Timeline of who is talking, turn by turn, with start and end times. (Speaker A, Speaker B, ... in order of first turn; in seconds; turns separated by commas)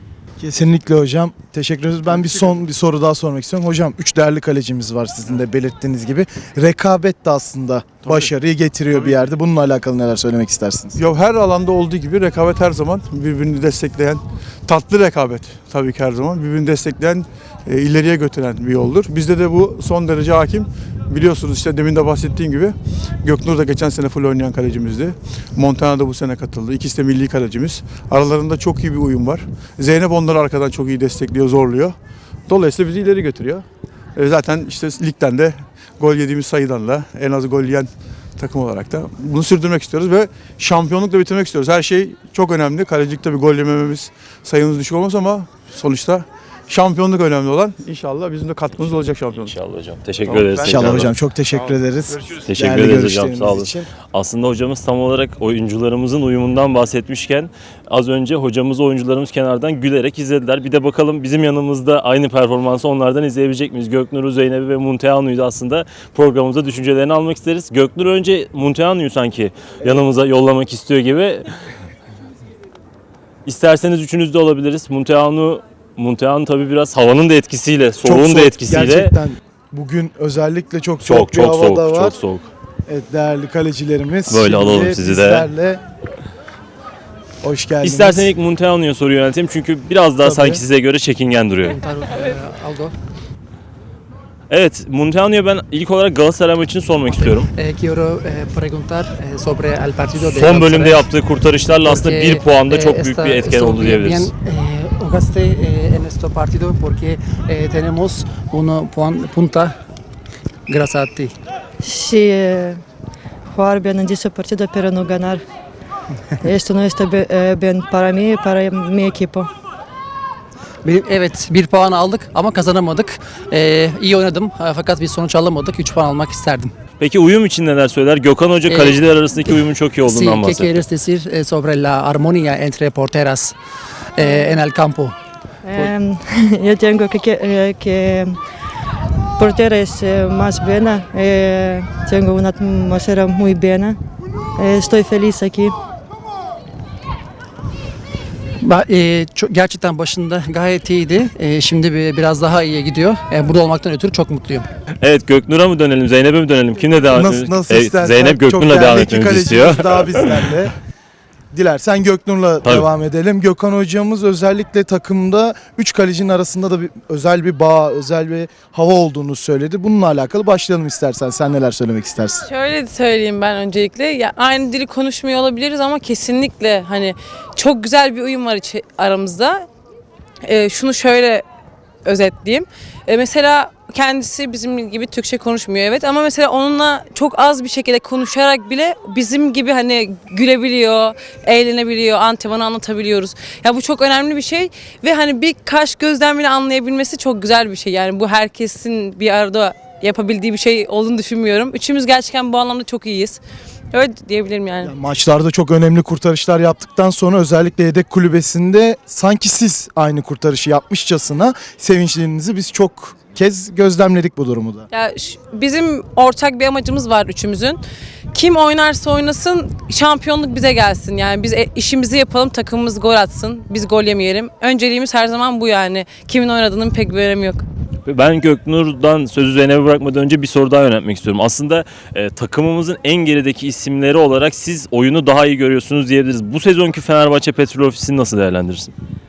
Speaker A: 0.4-11.0, Speaker B: 2.1-2.6, Speaker B: 8.0-8.3, Speaker B: 10.9-31.9, Speaker B: 32.5-49.6, Speaker C: 49.3-51.1, Speaker B: 50.2-51.1, Speaker A: 50.6-53.9, Speaker B: 52.1-52.4, Speaker C: 52.4-71.5, Speaker C: 73.5-79.1, Speaker A: 78.0-82.2, Speaker C: 81.0-82.5, Speaker A: 82.9-85.8, Speaker C: 84.3-85.5, Speaker A: 87.4-88.3, Speaker C: 87.8-91.8, Speaker A: 90.2-90.6, Speaker D: 91.7-93.0, Speaker C: 94.5-97.5, Speaker D: 97.2-101.1, Speaker C: 100.2-104.3, Speaker D: 101.8-109.7, Speaker D: 110.7-111.3, Speaker E: 111.8-112.8, Speaker E: 113.5-115.4, Speaker E: 116.4-119.5, Speaker D: 120.8-126.7, Speaker C: 127.0-130.8, Speaker D: 128.7-133.6, Speaker D: 134.2-135.2, Speaker E: 134.2-134.5, Speaker E: 135.6-138.4, Speaker E: 139.4-144.0, Speaker E: 144.6-145.7, Speaker D: 148.6-154.7, Speaker C: 155.0-160.5, Speaker A: 157.1-160.7, Speaker A: 161.5-172.4, Speaker F: 172.4-179.7, Speaker F: 180.4-181.4, Speaker F: 182.0-203.4, Speaker F: 203.9-204.9, Speaker A: 204.8-214.9, Speaker F: 214.9-217.8, Speaker F: 218.3-227.6, Speaker C: 228.0-238.9